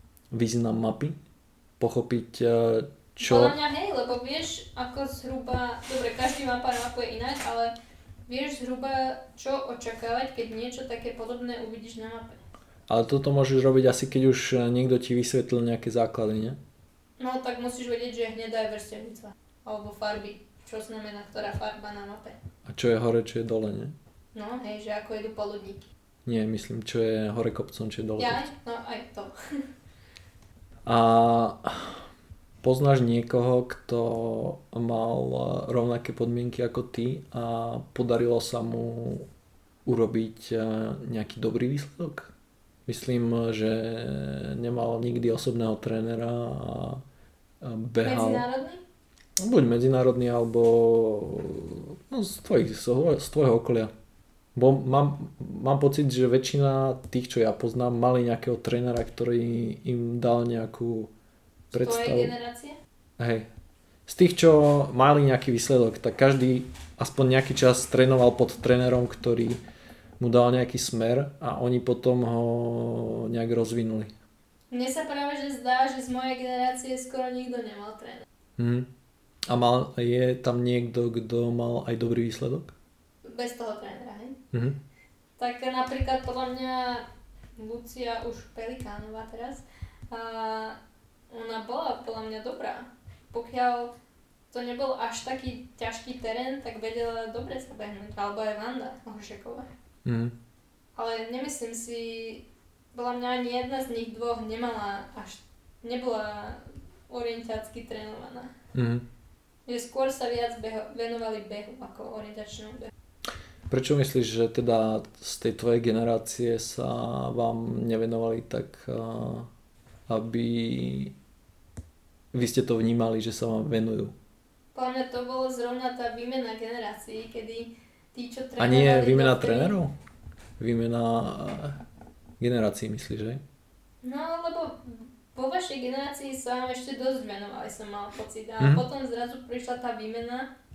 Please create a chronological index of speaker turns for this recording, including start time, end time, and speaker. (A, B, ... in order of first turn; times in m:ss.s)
0:00.3-0:01.2 A
0:01.8-0:03.6 A
0:03.2-0:07.7 B
0:08.3-0:12.4 B
0:12.9-0:16.6 A
0:17.2-0:22.4 B
0:22.6-0:24.0 A
0:24.4-0:25.9 B
0:26.2-0:28.5 A
0:28.2-0:29.4 B
0:30.9-0:32.1 A
0:32.6-0:39.3 A
0:39.8-0:42.3 A
0:42.9-0:47.0 A
0:47.6-0:48.5 A
0:48.0-0:48.8 B
0:49.4-0:53.9 A
0:54.6-1:01.1 A
1:01.7-1:02.3 A
1:01.7-1:02.8 B
1:03.2-1:03.5 A
1:04.1-1:09.6 A
1:10.2-1:14.1 A
1:14.7-1:18.3 B
1:18.6-1:18.9 A
1:19.5-1:22.8 A
1:23.2-1:24.4 B
1:24.5-1:24.8 A
1:25.4-1:27.0 B
1:27.6-1:30.8 B
1:31.3-1:33.9 B
1:34.5-1:39.7 B
1:40.0-1:40.4 A
1:41.0-1:48.6 B
1:48.7-1:49.1 A
1:49.7-1:52.9 B
1:53.7-1:59.5 A
2:00.1-2:01.1 A
2:02.3-2:04.2 A
2:04.8-2:09.8 B
2:08.6-2:09.9 A
2:10.6-2:11.8 A
2:12.4-2:13.4 A
2:14.0-2:20.5 B
2:18.6-2:18.8 A